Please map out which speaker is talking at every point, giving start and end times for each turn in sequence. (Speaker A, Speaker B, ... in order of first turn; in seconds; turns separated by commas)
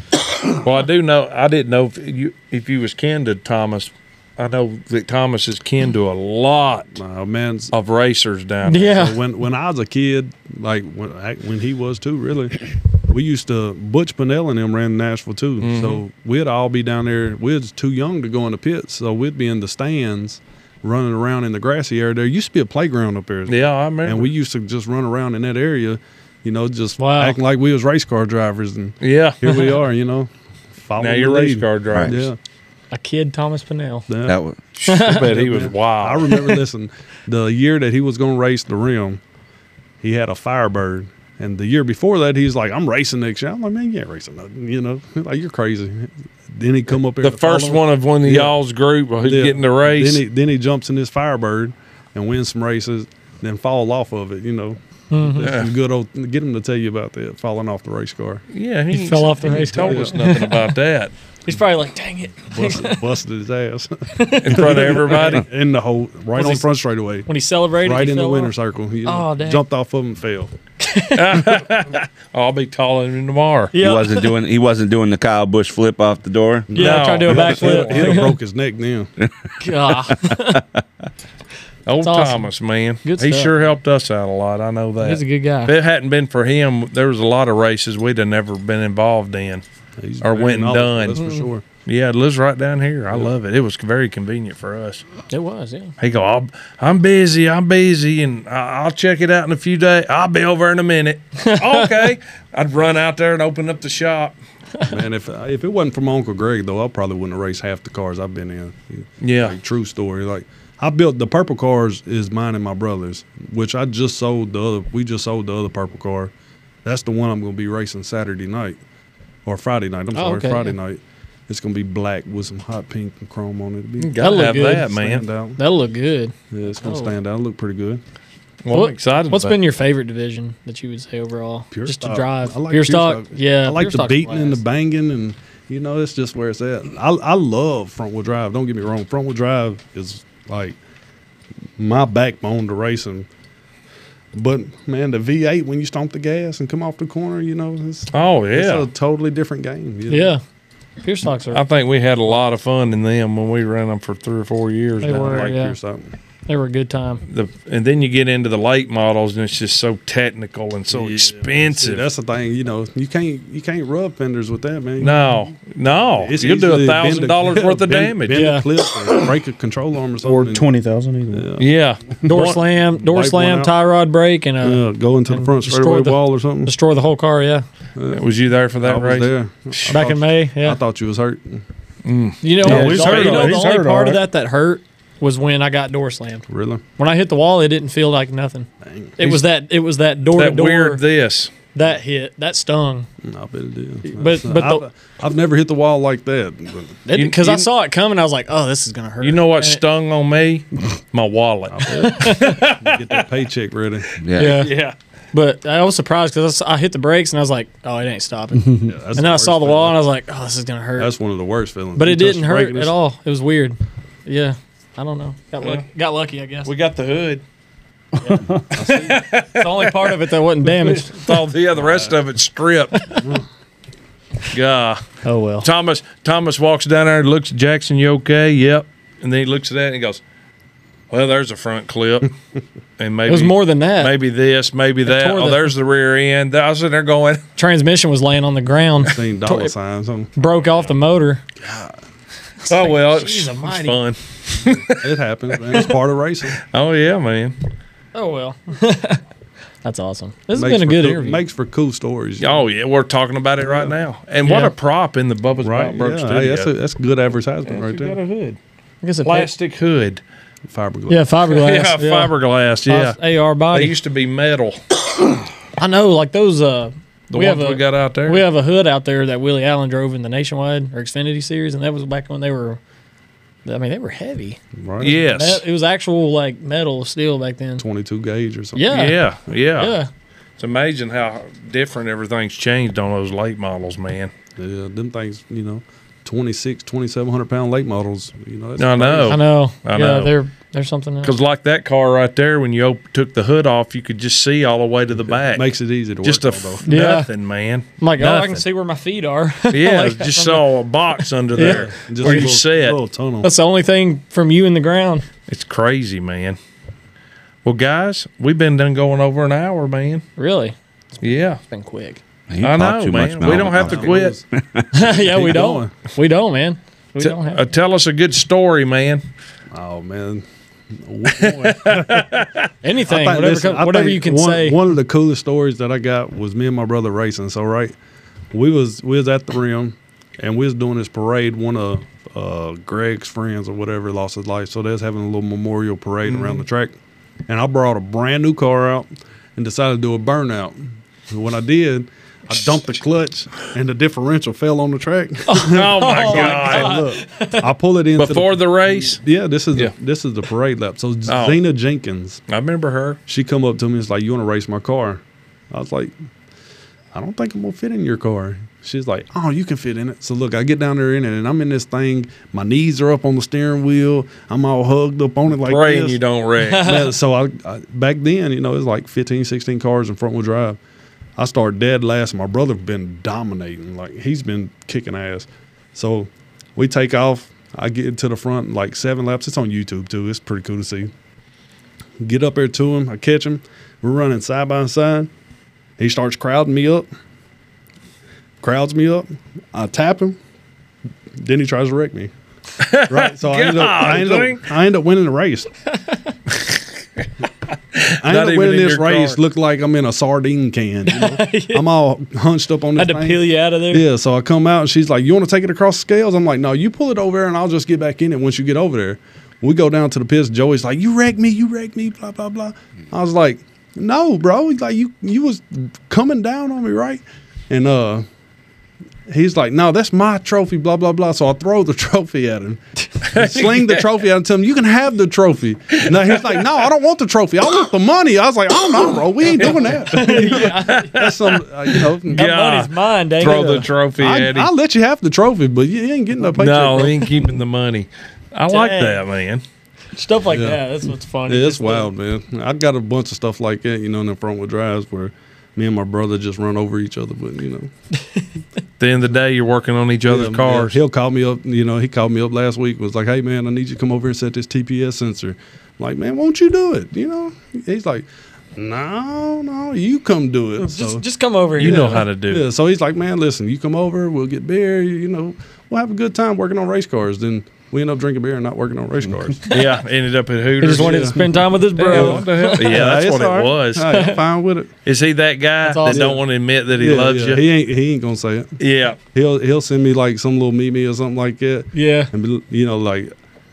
Speaker A: 0.5-7.0, Speaker B: 6.9-7.7, Speaker A: 7.7-9.0, Speaker C: 8.7-9.2, Speaker B: 8.9-32.4, Speaker A: 15.6-16.0, Speaker A: 23.5-24.3, Speaker C: 27.0-27.4, Speaker A: 29.0-29.8, Speaker A: 31.0-32.3, Speaker C: 32.9-34.1, Speaker B: 34.1-34.4, Speaker D: 34.2-34.6, Speaker A: 34.8-36.5, Speaker C: 34.8-35.3, Speaker B: 35.0-39.2, Speaker B: 40.0-48.5, Speaker A: 47.2-50.2, Speaker B: 49.2-58.4, Speaker C: 55.1-55.5, Speaker A: 55.4-55.7, Speaker A: 58.5-61.1, Speaker C: 58.9-60.7, Speaker B: 59.8-60.1, Speaker C: 61.5-63.0, Speaker B: 62.5-67.3, Speaker C: 64.1-65.2, Speaker A: 64.4-65.5, Speaker C: 66.3-66.6, Speaker C: 67.3-68.5, Speaker B: 67.8-70.5, Speaker C: 69.0-69.6, Speaker C: 70.8-71.5, Speaker A: 71.1-73.7, Speaker C: 73.7-74.3, Speaker D: 73.8-76.7, Speaker B: 76.7-79.1, Speaker A: 76.7-78.3, Speaker C: 76.8-78.3, Speaker C: 79.6-80.6, Speaker D: 80.1-80.6, Speaker A: 81.8-89.6, Speaker C: 82.0-82.5, Speaker C: 83.0-83.5, Speaker C: 85.0-85.7, Speaker B: 90.0-91.6, Speaker A: 90.2-91.2, Speaker C: 91.1-91.5, Speaker A: 91.8-95.0, Speaker C: 95.3-95.9, Speaker A: 96.0-104.3, Speaker C: 101.4-101.8, Speaker B: 104.8-116.3, Speaker A: 109.2-109.6, Speaker B: 116.8-118.8, Speaker B: 119.5-125.6, Speaker C: 120.1-120.8, Speaker A: 124.0-125.2, Speaker C: 124.2-124.9, Speaker C: 125.6-127.1, Speaker B: 126.5-128.0, Speaker A: 128.6-129.6, Speaker C: 128.7-134.6, Speaker B: 131.7-140.8, Speaker B: 141.8-143.3, Speaker B: 144.3-150.3, Speaker A: 148.1-148.9, Speaker C: 150.1-150.4, Speaker C: 151.0-151.6, Speaker A: 151.5-155.5, Speaker C: 155.0-155.8, Speaker B: 155.2-156.1, Speaker C: 156.5-157.2, Speaker A: 157.3-162.1, Speaker B: 160.9-165.4, Speaker A: 165.0-168.4, Speaker B: 166.1-170.7, Speaker C: 168.3-168.7, Speaker E: 170.2-171.5, Speaker B: 171.3-171.7, Speaker A: 171.6-172.6, Speaker C: 172.2-177.7, Speaker B: 172.5-173.7, Speaker B: 174.6-176.7, Speaker B: 177.9-181.6, Speaker A: 178.1-179.9, Speaker C: 179.9-180.8, Speaker A: 182.0-183.7, Speaker C: 182.4-186.4, Speaker E: 182.6-184.2, Speaker B: 182.7-183.3, Speaker B: 186.5-186.8, Speaker C: 187.0-188.7, Speaker B: 188.8-189.2, Speaker C: 189.2-191.0, Speaker A: 190.3-191.5, Speaker C: 191.7-193.1, Speaker B: 193.2-197.0, Speaker C: 194.1-194.8, Speaker C: 197.1-199.8, Speaker A: 197.1-197.7, Speaker A: 199.2-203.2, Speaker B: 201.7-204.1, Speaker C: 202.0-202.6, Speaker D: 204.2-204.7, Speaker C: 204.3-204.7, Speaker A: 204.4-204.9, Speaker C: 205.3-211.1, Speaker E: 208.7-208.9, Speaker B: 208.9-210.0, Speaker B: 211.0-212.9, Speaker C: 211.9-216.7, Speaker A: 216.6-217.4, Speaker C: 218.2-221.4, Speaker B: 218.7-219.2, Speaker A: 218.8-223.2, Speaker B: 221.8-222.1, Speaker A: 224.5-225.0, Speaker C: 225.2-225.7, Speaker A: 225.6-230.2, Speaker A: 231.1-232.3, Speaker A: 233.0-237.4, Speaker C: 233.3-234.2, Speaker C: 235.0-235.7, Speaker C: 237.6-239.7, Speaker B: 239.0-240.3, Speaker C: 240.3-241.4, Speaker B: 241.6-241.9, Speaker C: 242.6-244.0, Speaker A: 242.7-245.1, Speaker B: 244.9-246.6, Speaker A: 246.6-247.6, Speaker C: 248.1-249.2, Speaker C: 249.8-251.4, Speaker B: 250.5-252.6, Speaker A: 252.4-256.7, Speaker B: 253.6-253.9, Speaker C: 254.4-254.7, Speaker B: 255.6-258.2, Speaker A: 257.6-258.6, Speaker C: 259.0-259.5, Speaker A: 259.2-260.2, Speaker B: 260.7-261.3, Speaker C: 261.1-262.3, Speaker A: 261.5-263.2, Speaker C: 262.9-263.9, Speaker A: 263.7-264.8, Speaker C: 265.8-272.8, Speaker A: 267.3-268.4, Speaker C: 273.6-274.6, Speaker B: 274.8-275.2, Speaker A: 275.0-275.6, Speaker C: 275.1-277.8, Speaker B: 277.8-279.0, Speaker C: 278.7-279.2, Speaker A: 278.9-280.0, Speaker C: 279.8-280.1, Speaker A: 280.6-284.3, Speaker B: 284.6-289.4, Speaker A: 288.8-290.4, Speaker C: 289.3-291.3, Speaker A: 291.2-295.7, Speaker B: 295.3-296.9, Speaker A: 296.2-298.6, Speaker C: 296.9-297.3, Speaker C: 298.0-300.7, Speaker A: 299.7-303.0, Speaker C: 301.5-302.5, Speaker B: 301.5-303.5, Speaker C: 303.4-305.2, Speaker A: 305.5-306.6, Speaker A: 307.6-310.2, Speaker C: 310.4-312.2, Speaker A: 311.2-311.6, Speaker D: 312.5-314.9, Speaker A: 312.6-314.4, Speaker B: 313.5-315.9, Speaker C: 314.9-317.6, Speaker A: 317.2-319.2, Speaker B: 319.7-322.3, Speaker A: 321.3-322.7, Speaker C: 322.8-324.8, Speaker B: 323.1-327.9, Speaker B: 328.5-336.9, Speaker B: 337.5-352.4, Speaker C: 345.5-347.6, Speaker A: 345.5-347.1, Speaker A: 348.2-349.2, Speaker A: 351.3-351.6, Speaker A: 352.5-353.2, Speaker B: 353.3-356.1, Speaker B: 357.1-366.2, Speaker A: 365.6-366.9, Speaker C: 366.6-367.1, Speaker B: 366.8-370.8, Speaker B: 371.4-381.1, Speaker B: 382.2-385.3, Speaker B: 386.0-387.1, Speaker B: 388.6-390.4, Speaker B: 391.4-392.3, Speaker A: 392.8-394.6, Speaker B: 393.1-395.7, Speaker C: 395.9-396.3, Speaker A: 397.9-399.4, Speaker B: 398.2-418.2, Speaker C: 401.1-401.9, Speaker C: 402.9-404.1, Speaker B: 419.3-432.5, Speaker A: 423.2-424.1, Speaker A: 425.9-426.6, Speaker A: 429.5-434.7, Speaker C: 429.6-431.2, Speaker C: 432.3-433.9, Speaker B: 434.2-437.4, Speaker A: 436.5-439.6, Speaker C: 438.7-439.2, Speaker C: 440.1-442.1, Speaker B: 440.4-440.8, Speaker B: 441.4-447.9, Speaker A: 449.0-451.0, Speaker B: 450.3-461.2, Speaker C: 460.8-462.2, Speaker B: 461.8-469.7, Speaker A: 461.8-462.6, Speaker A: 469.7-474.3, Speaker C: 470.8-473.1, Speaker B: 470.9-471.5, Speaker B: 472.1-474.9, Speaker C: 474.1-474.4, Speaker A: 475.0-477.6, Speaker C: 475.8-476.3, Speaker B: 476.1-478.8, Speaker A: 478.8-479.2, Speaker B: 479.3-483.3, Speaker C: 481.9-482.3